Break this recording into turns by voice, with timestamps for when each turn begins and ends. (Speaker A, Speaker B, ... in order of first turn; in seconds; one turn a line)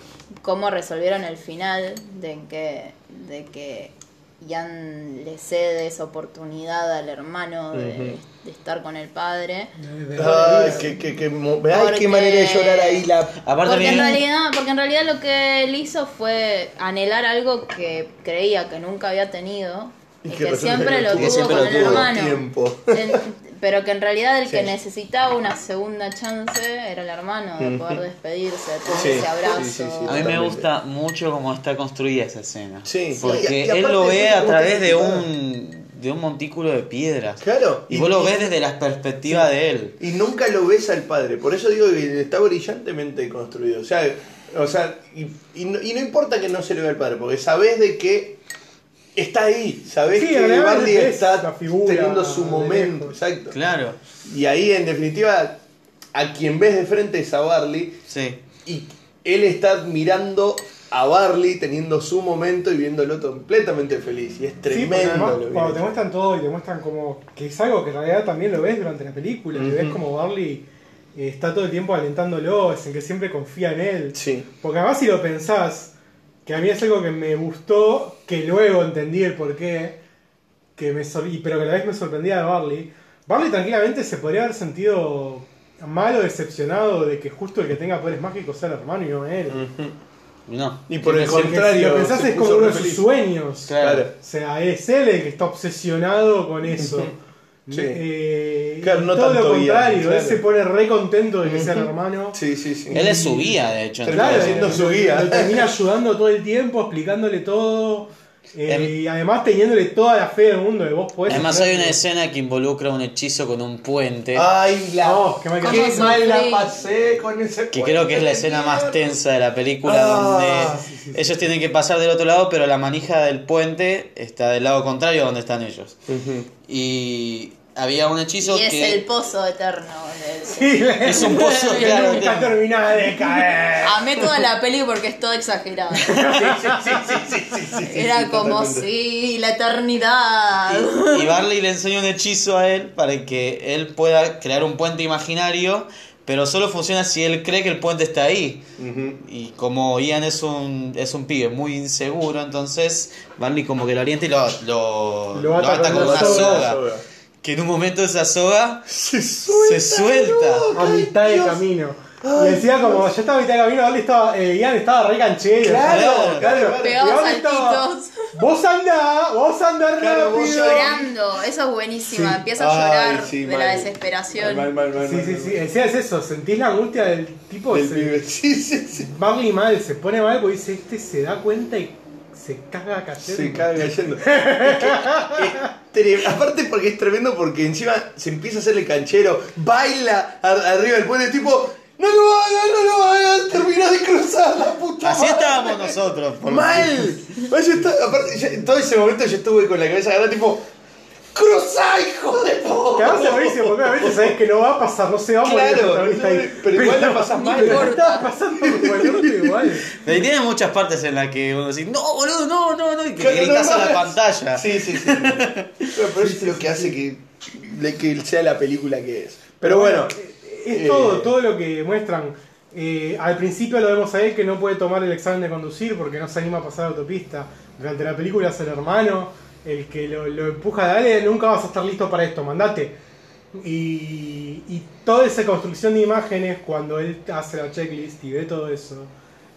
Speaker A: 0.4-9.8
Speaker B: 7.7-8.2
Speaker C: 9.8-10.9
Speaker B: 10.2-14.2
Speaker A: 11.7-13.1
Speaker D: 13.4-14.2
Speaker A: 13.6-30.3
Speaker B: 20.2-23.2
Speaker D: 21.1-22.1
Speaker B: 24.5-24.8
Speaker B: 27.6-28.0
Speaker B: 28.9-30.7
Speaker D: 30.1-40.0
Speaker B: 32.9-35.3
Speaker A: 33.2-33.4
Speaker B: 37.4-38.5
Speaker B: 40.0-48.4
Speaker B: 49.1-53.6
Speaker C: 50.1-53.1
Speaker D: 53.5-54.0
Speaker B: 54.2-55.6
Speaker B: 56.1-58.0
Speaker D: 58.1-58.4
Speaker B: 58.6-65.9
Speaker C: 64.7-75.9
Speaker B: 69.5-70.0
Speaker B: 74.1-74.5
Speaker C: 76.5-80.0
Speaker C: 80.8-89.7
Speaker B: 89.5-90.0
Speaker D: 90.5-91.6
Speaker B: 90.9-93.1
Speaker C: 91.0-102.4
Speaker D: 93.7-94.1
Speaker B: 93.7-94.1
Speaker B: 96.8-97.2
Speaker B: 97.7-98.0
Speaker B: 98.8-100.4
Speaker B: 101.4-103.2
Speaker C: 102.9-112.0
Speaker D: 102.9-104.8
Speaker B: 104.0-105.7
Speaker D: 108.7-108.9
Speaker D: 111.3-114.5
Speaker B: 114.3-119.2
Speaker C: 115.0-116.2
Speaker A: 115.6-116.7
Speaker D: 117.7-126.0
Speaker B: 119.8-120.8
Speaker C: 120.7-121.5
Speaker B: 126.1-126.5
Speaker D: 126.7-129.0
Speaker A: 128.4-132.3
Speaker C: 130.5-134.3
Speaker D: 131.1-132.6
Speaker A: 133.8-136.2
Speaker C: 136.0-137.0
Speaker B: 136.2-138.9
Speaker A: 137.8-141.4
Speaker D: 140.7-148.7
Speaker B: 148.8-149.2
Speaker D: 149.2-156.8
Speaker C: 155.3-156.7
Speaker B: 155.8-157.0
Speaker D: 157.4-158.9
Speaker B: 158.9-161.6
Speaker D: 159.5-160.7
Speaker C: 160.7-171.1
Speaker B: 162.2-163.1
Speaker B: 165.6-167.2
Speaker D: 165.9-166.4
Speaker A: 166.7-168.2
Speaker B: 170.0-171.1
Speaker A: 170.4-174.7
Speaker B: 172.1-175.6
Speaker C: 175.0-178.2
Speaker B: 177.7-179.1
Speaker C: 178.9-185.7
Speaker B: 183.2-200.7
Speaker D: 195.0-197.2
Speaker B: 201.3-204.4
Speaker C: 203.0-209.9
Speaker B: 205.4-208.0
Speaker A: 207.3-208.3
Speaker B: 208.5-209.8
Speaker D: 209.9-215.9
Speaker B: 213.2-220.2
Speaker C: 216.2-217.0
Speaker C: 219.6-233.0
Speaker B: 220.7-221.3
Speaker C: 233.5-239.1